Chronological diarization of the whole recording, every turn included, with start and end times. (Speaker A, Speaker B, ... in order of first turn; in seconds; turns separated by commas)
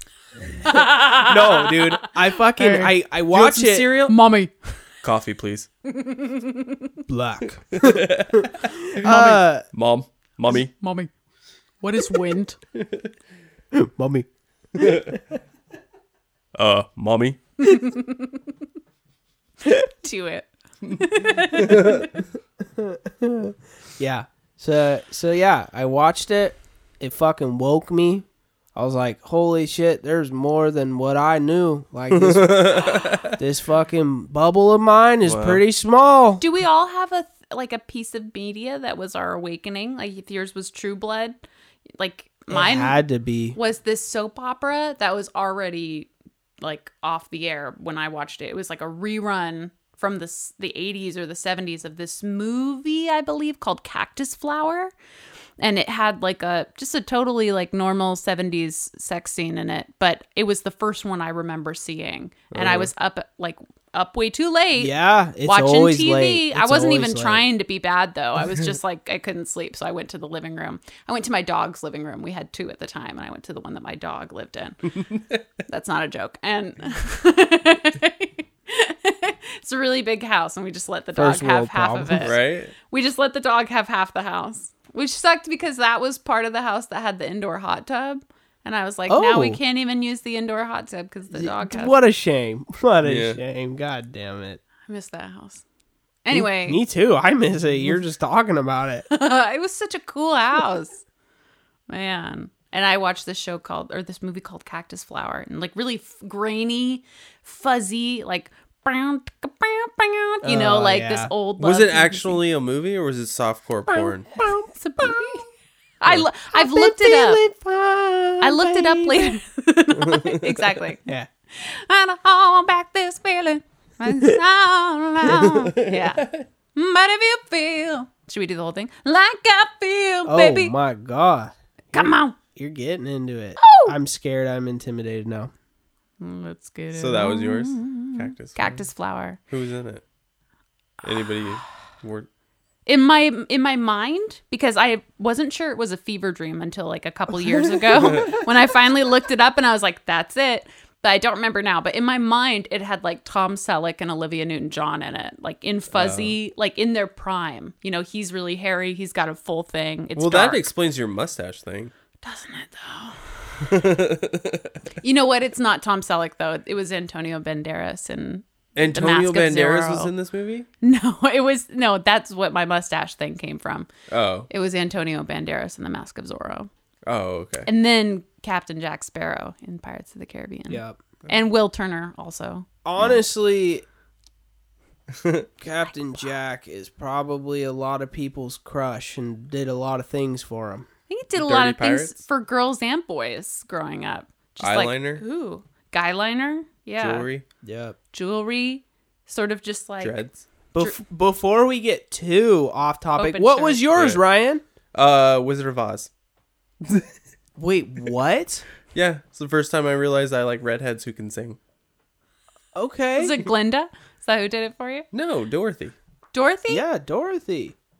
Speaker A: 0.6-2.9, Speaker B: 1.1-3.9, Speaker C: 3.3-4.1, Speaker A: 4.0-4.8, Speaker C: 5.0-5.7, Speaker A: 5.9-7.0, Speaker B: 7.1-9.6, Speaker C: 7.7-9.1, Speaker A: 9.0-9.4, Speaker C: 9.7-10.7, Speaker A: 10.5-11.1, Speaker A: 11.8-12.6, Speaker C: 12.7-13.1, Speaker B: 13.7-15.2, Speaker C: 14.8-15.1, Speaker C: 16.6-17.4, Speaker A: 17.6-18.5, Speaker A: 19.6-22.1, Speaker C: 21.5-22.0, Speaker B: 22.8-36.4, Speaker C: 32.1-33.4, Speaker C: 35.2-35.6, Speaker A: 36.4-41.4, Speaker A: 42.0-43.0, Speaker B: 42.5-43.6, Speaker A: 43.5-46.1, Speaker A: 46.6-54.9, Speaker A: 55.6-64.9, Speaker C: 62.5-62.9, Speaker B: 64.8-67.4, Speaker A: 65.5-74.8, Speaker C: 75.1-75.4, Speaker A: 75.7-82.4, Speaker B: 81.2-82.3, Speaker C: 82.2-82.7, Speaker A: 82.9-92.0, Speaker B: 89.1-89.6, Speaker B: 91.3-94.6, Speaker C: 93.0-93.4, Speaker A: 94.8-95.6, Speaker A: 96.2-96.8, Speaker B: 96.3-99.0, Speaker A: 99.1-101.0, Speaker A: 101.9-112.4, Speaker B: 110.4-111.3, Speaker C: 111.6-114.4, Speaker B: 113.9-115.4, Speaker A: 114.7-115.5, Speaker A: 116.0-117.4, Speaker B: 116.5-119.4, Speaker A: 118.4-130.7, Speaker C: 119.9-120.7, Speaker C: 125.2-126.5, Speaker B: 130.2-135.5, Speaker A: 131.9-132.4, Speaker A: 133.6-133.9, Speaker A: 136.2-139.4, Speaker C: 136.9-138.8, Speaker C: 139.5-140.0, Speaker C: 141.0-142.3, Speaker A: 142.8-160.7, Speaker C: 147.9-148.4, Speaker C: 155.9-156.4, Speaker C: 160.2-161.9, Speaker A: 162.2-163.6, Speaker C: 163.6-164.8, Speaker A: 165.0-170.1, Speaker C: 168.8-170.7, Speaker A: 170.8-173.9, Speaker C: 174.1-174.5, Speaker A: 174.5-176.7, Speaker C: 177.1-177.7, Speaker A: 177.6-183.2, Speaker B: 180.7-181.0, Speaker B: 182.8-183.8, Speaker C: 185.1-185.5, Speaker B: 185.6-190.9, Speaker A: 191.1-197.3, Speaker C: 191.3-192.2, Speaker C: 194.6-195.2, Speaker C: 197.0-197.4, Speaker B: 197.6-197.9, Speaker A: 198.1-200.2, Speaker C: 200.0-200.4, Speaker B: 200.7-204.6, Speaker A: 203.2-203.8, Speaker C: 203.9-204.2, Speaker C: 204.9-206.1, Speaker C: 206.8-207.1, Speaker B: 207.6-208.7, Speaker C: 208.9-211.6, Speaker B: 212.7-213.4, Speaker A: 213.2-215.1, Speaker C: 215.1-215.9, Speaker A: 216.3-216.8, Speaker B: 216.7-217.7